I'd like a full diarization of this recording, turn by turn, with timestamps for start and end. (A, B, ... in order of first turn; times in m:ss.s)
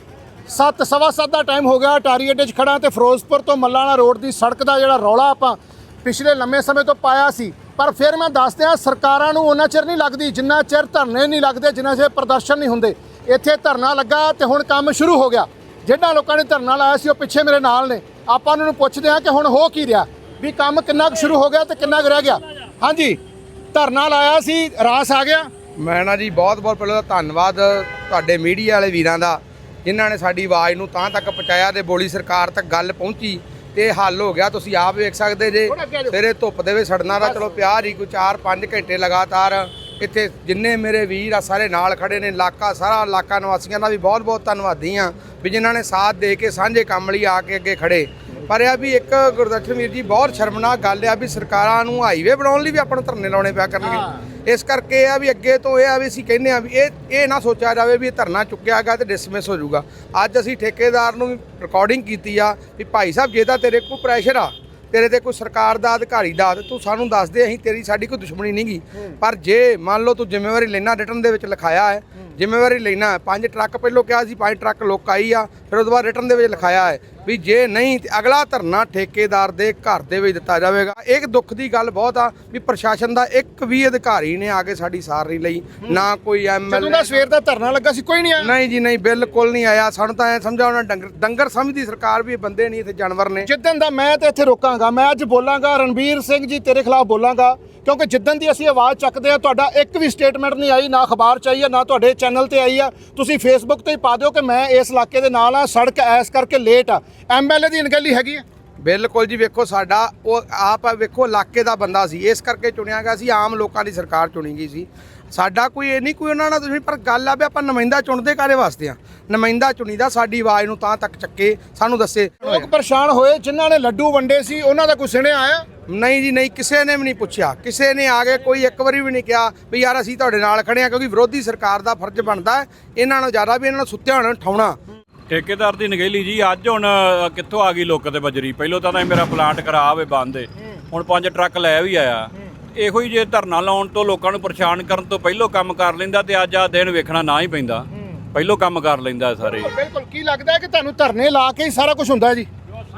0:00.5-0:23.2 A
0:23.7-0:25.5 A
0:25.8-1:27.1 B
0:35.7-0:36.2 A
0:37.2-0:37.5 A
1:26.7-1:28.5 A
1:28.4-1:33.5 B
1:33.4-1:48.4 A
1:48.8-2:02.7 B
2:02.4-2:05.6 A
2:05.9-2:14.8 B
2:15.3-2:29.7 C
2:29.4-2:32.5 A